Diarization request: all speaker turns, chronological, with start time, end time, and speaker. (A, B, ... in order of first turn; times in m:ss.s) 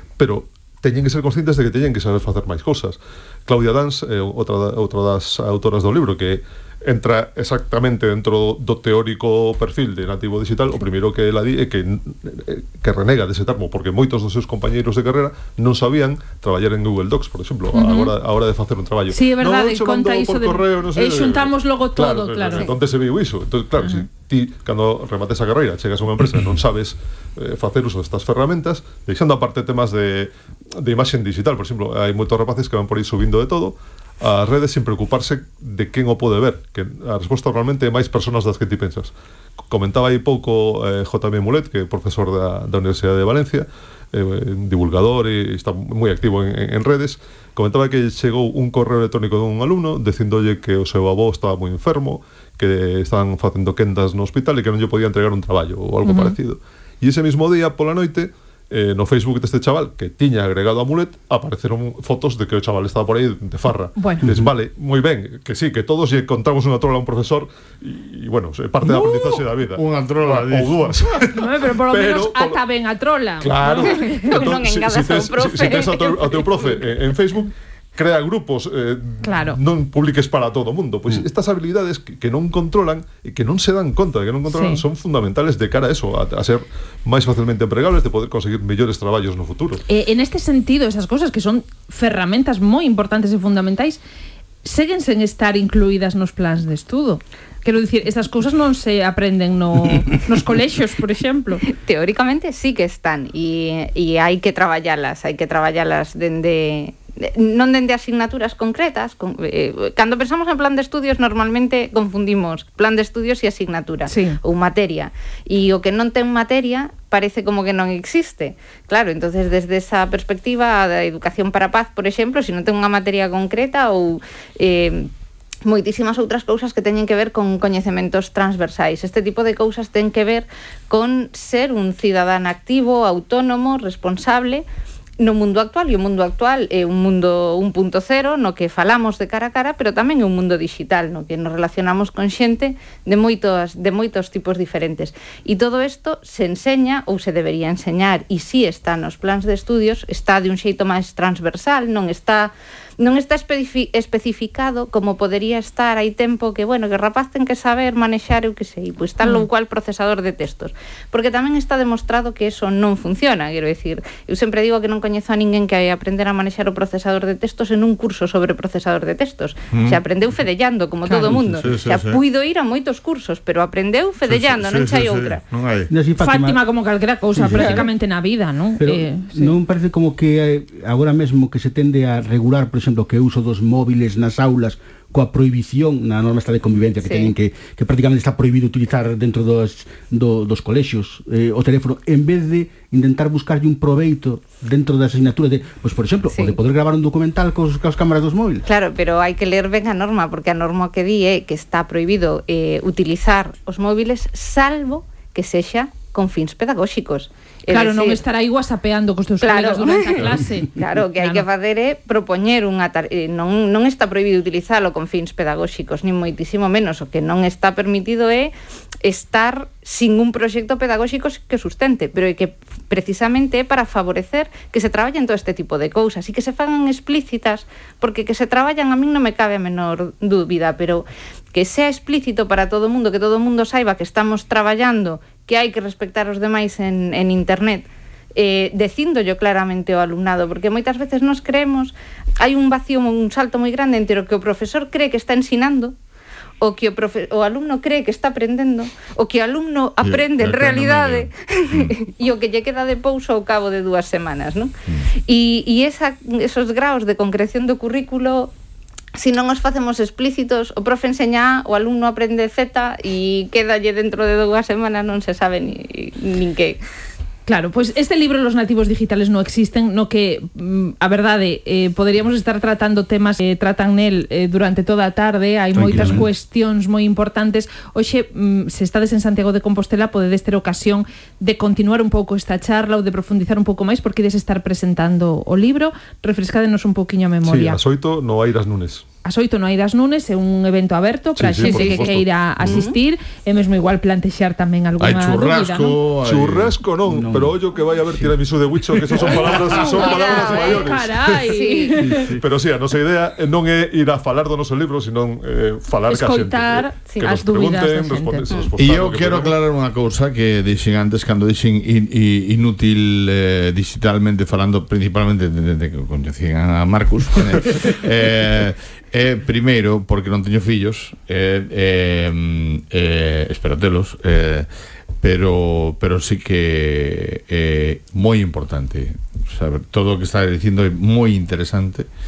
0:00.2-0:39.1 A
0:17.7-0:18.1 B
0:19.1-0:22.7 B
0:23.8-0:24.0 B
0:39.7-1:12.6 A
0:56.0-0:56.4 B
1:04.0-1:04.3 B
1:08.8-1:11.0 C
1:11.3-1:14.2 B
1:13.4-1:13.9 C
1:13.5-1:29.8 A
1:13.8-1:17.1 D
1:19.2-1:19.6 B
1:24.5-1:24.8 B
1:29.9-1:34.0 B
1:34.6-1:41.6 B
1:41.7-2:05.1 D
1:54.1-1:54.4 B
2:05.6-2:14.7 D
2:15.2-2:55.4 D
2:39.2-2:39.5 B
2:49.7-2:50.0 C
2:51.0-2:51.3 B
2:51.2-2:52.2 C
2:54.2-2:55.9 C
2:55.9-2:56.6 E
2:56.2-2:59.6 B
2:57.3-2:57.9 E
2:57.6-2:57.8 D
2:58.8-3:18.7 E
3:07.0-3:07.3 D
3:16.3-3:16.6 D
3:18.7-3:28.2 D
3:27.7-3:31.5 B
3:29.4-3:38.5 D
3:39.0-4:05.9 D
4:06.6-4:14.7 D
4:10.0-4:12.0 C
4:15.2-4:18.5 D
4:19.2-4:26.8 D
4:27.5-4:47.8 B
4:35.7-4:36.3 E
4:47.4-4:49.0 A
4:49.2-4:56.0 B
4:51.4-4:52.2 A
4:51.6-4:53.0 D
4:51.9-4:52.2 C
4:55.0-4:56.8 C
4:56.2-5:01.3 A
4:57.1-4:57.6 E
4:59.2-5:02.4 B
5:00.0-5:02.0 D
5:02.1-5:09.6 A
5:06.1-5:08.6 B
5:08.8-5:32.1 C